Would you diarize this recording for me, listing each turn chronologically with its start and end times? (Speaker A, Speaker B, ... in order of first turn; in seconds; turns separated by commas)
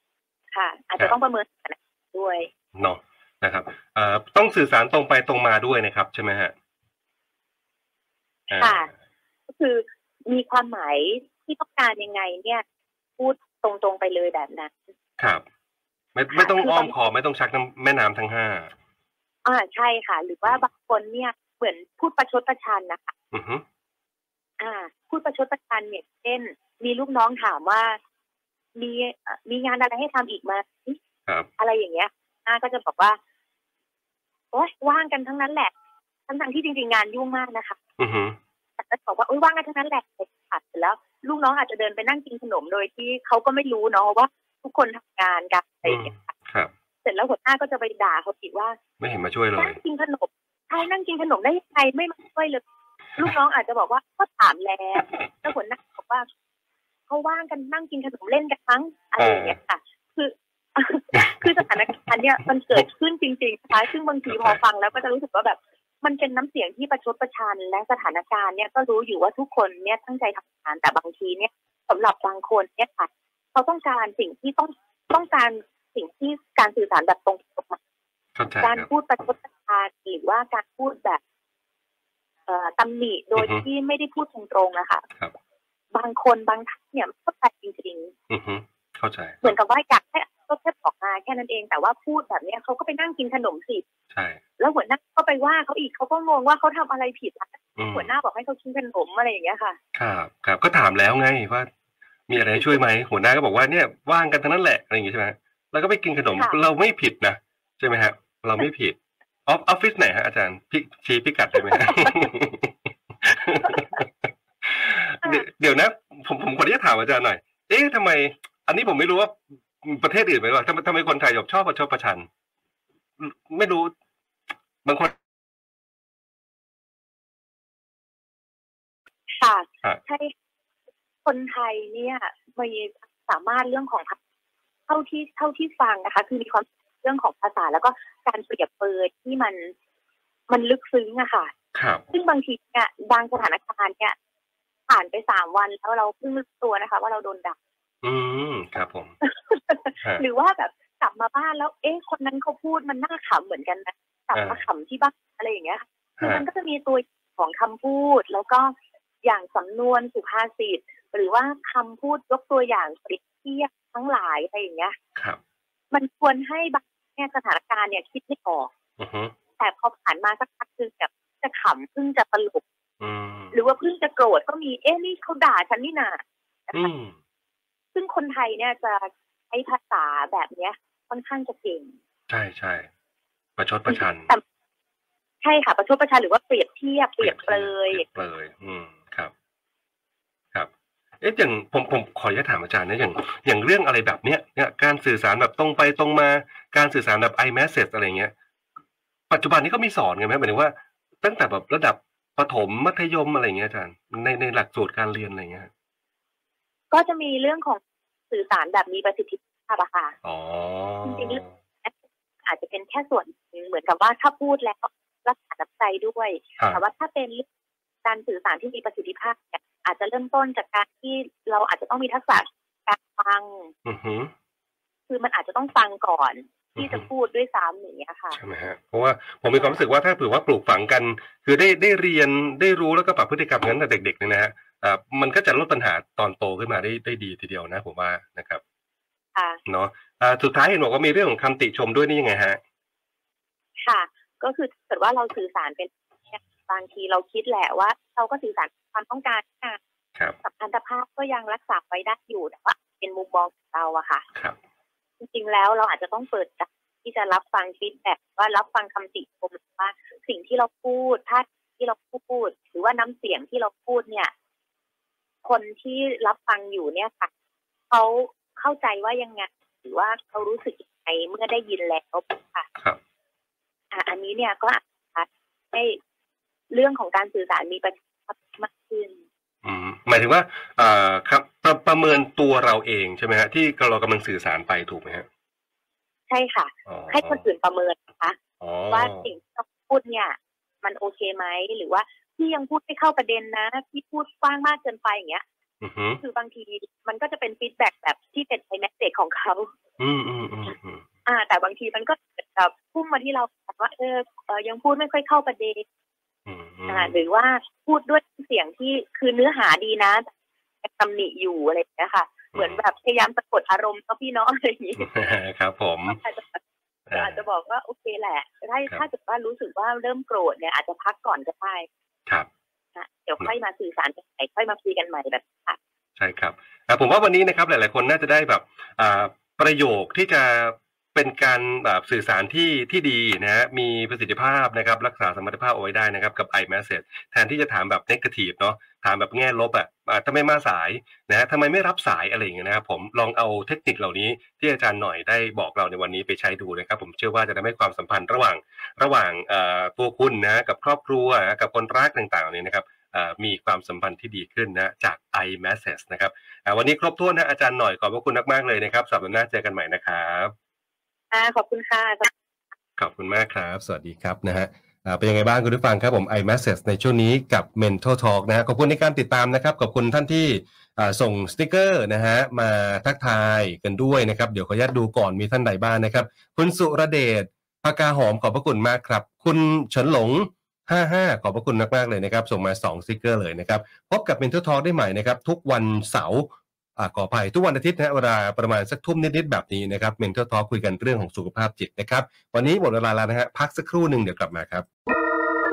Speaker A: 0.5-2.5, Speaker B: 2.7-6.5, Speaker B: 8.5-8.9, Speaker A: 8.5-8.9, Speaker A: 9.5-12.6, Speaker A: 13.2-14.9, Speaker B: 15.2-15.4, Speaker B: 16.1-18.7, Speaker A: 16.3-16.9, Speaker A: 19.4-23.1, Speaker B: 23.3-23.6, Speaker A: 24.6-28.0, Speaker A: 28.8-31.0, Speaker A: 31.6-33.2, Speaker A: 34.5-35.7, Speaker A: 36.3-37.8, Speaker B: 38.0-38.4, Speaker A: 38.8-46.2, Speaker B: 45.8-46.7, Speaker A: 47.0-48.8, Speaker B: 49.0-49.8, Speaker A: 49.6-52.6, Speaker A: 53.1-56.3, Speaker A: 57.1-77.8, Speaker B: 59.2-59.6, Speaker B: 61.1-61.5, Speaker B: 64.3-64.6, Speaker B: 78.3-78.9, Speaker A: 78.6-81.2, Speaker A: 82.5-85.0, Speaker B: 83.3-83.6, Speaker A: 85.9-88.1, Speaker B: 88.3-89.5, Speaker A: 89.4-93.8, Speaker B: 94.1-94.4, Speaker A: 94.6-99.8, Speaker B: 97.8-98.1, Speaker B: 99.9-101.7, Speaker B: 102.3-122.3, Speaker A: 106.3-106.6, Speaker B: 123.2-123.9, Speaker B: 124.8-125.2, Speaker A: 129.4-130.3, Speaker A: 131.2-134.2, Speaker A: 134.9-139.7, Speaker A: 140.5-141.5, Speaker B: 141.7-142.0, Speaker A: 142.1-144.1, Speaker A: 144.9-147.6, Speaker B: 148.0-149.1, Speaker A: 149.2-165.0, Speaker B: 154.3-154.6, Speaker B: 156.2-156.4, Speaker A: 165.9-168.7, Speaker B: 169.0-169.3, Speaker A: 169.6-172.6, Speaker B: 173.0-173.6, Speaker A: 173.5-176.9, Speaker B: 176.7-177.2, Speaker A: 177.9-181.9, Speaker B: 182.3-182.9, Speaker B: 183.6-184.3, Speaker A: 183.9-184.4, Speaker A: 185.4-188.0, Speaker B: 187.2-189.3, Speaker B: 191.2-198.3, Speaker B: 199.3-205.7, Speaker A: 206.9-207.8, Speaker A: 208.3-210.1, Speaker B: 210.2-211.5, Speaker A: 211.0-217.4, Speaker A: 218.0-223.7, Speaker B: 223.8-224.3, Speaker A: 225.1-228.4, Speaker B: 226.8-227.1, Speaker B: 228.3-238.6, Speaker A: 229.5-229.8, Speaker A: 239.3-239.6, Speaker B: 239.7-242.6, Speaker A: 243.8-249.8, Speaker A: 250.4-254.2, Speaker A: 255.2-264.3, Speaker A: 265.4-267.3, Speaker A: 267.9-272.7, Speaker A: 273.9-276.0, Speaker A: 276.7-279.2, Speaker B: 279.6-285.2, Speaker A: 286.3-288.4, Speaker B: 286.9-287.4, Speaker B: 288.6-289.3, Speaker A: 288.9-295.4, Speaker B: 295.8-296.2, Speaker A: 296.2-299.7, Speaker B: 300.0-301.0, Speaker A: 301.2-305.8, Speaker B: 306.4-307.2, Speaker A: 306.9-310.3, Speaker A: 310.8-315.1, Speaker B: 312.5-312.8, Speaker B: 314.9-316.2, Speaker A: 316.1-316.6, Speaker B: 317.1-317.4, Speaker A: 317.1-321.9, Speaker A: 322.9-325.8, Speaker B: 326.2-360.5, Speaker A: 361.3-362.3, Speaker B: 363.0-394.9